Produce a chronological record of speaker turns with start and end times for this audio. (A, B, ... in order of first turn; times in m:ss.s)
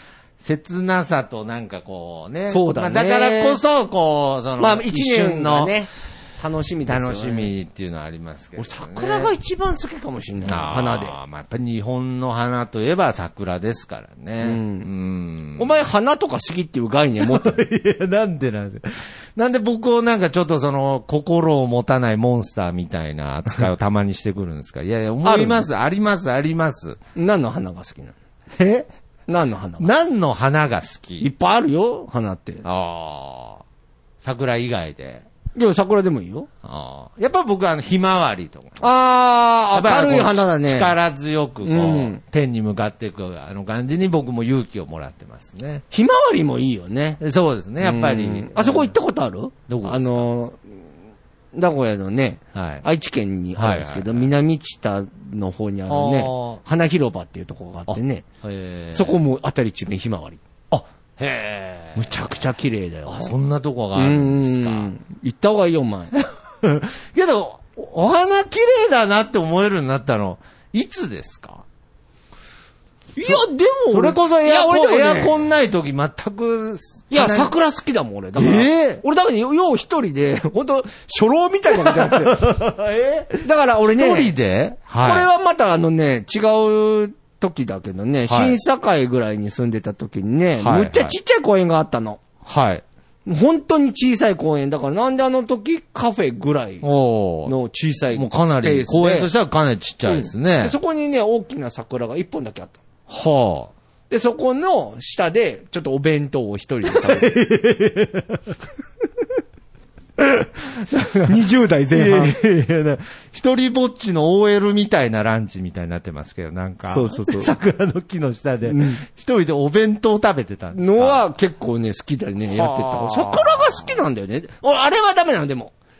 0:00.4-0:05.7 A
0:02.5-0:03.6 B
0:04.6-0:07.5 B
0:06.9-0:09.3 A
0:08.6-0:11.1 B
0:10.4-0:15.7 A
0:14.4-0:14.9 B
0:15.6-0:17.6 B
0:17.2-0:27.0 A
0:25.2-0:25.6 B
0:27.2-0:28.1 B
0:28.6-0:28.9 A
0:29.3-0:29.9 B
0:29.8-0:31.3 A
0:31.2-0:32.6 B
0:32.6-0:33.6 A
0:34.2-0:35.2 A
0:35.5-0:36.5 B
0:36.6-0:38.9 A
0:38.8-0:40.9 B
0:39.7-0:45.8 A
0:41.6-0:42.2 B
0:45.9-0:47.2 B
0:47.2-0:48.9 A
0:47.8-0:50.6 B
0:49.7-0:50.3 A
0:51.5-0:58.3 B
0:52.5-0:52.8 A
0:53.6-0:54.3 A
0:55.9-0:56.6 A
0:57.9-0:59.2 A
0:58.9-1:00.4 B
1:00.7-1:02.4 A
1:01.9-1:03.3 B
1:03.0-1:04.9 A
1:03.9-1:06.1 B
1:06.6-1:11.6 A
1:13.2-1:15.4 B
1:13.9-1:17.5 A
1:17.1-1:22.5 B
1:18.4-1:19.0 A
1:21.7-1:25.3 A
1:23.4-1:24.3 B
1:25.0-1:32.2 B
1:28.3-1:28.6 A
1:30.6-1:31.1 A
1:32.4-1:32.8 A
1:33.2-1:36.8 B
1:36.8-1:37.5 A
1:37.4-1:39.3 B
1:38.1-1:40.8 A
1:40.0-1:42.8 B
1:43.1-1:43.7 A
1:44.1-1:47.3 B
1:46.9-1:48.5 A
1:50.2-2:01.2 A
1:51.0-1:52.4 B
1:56.9-1:57.5 B
1:58.7-1:59.0 B
2:00.7-2:05.7 B
2:02.5-2:03.9 A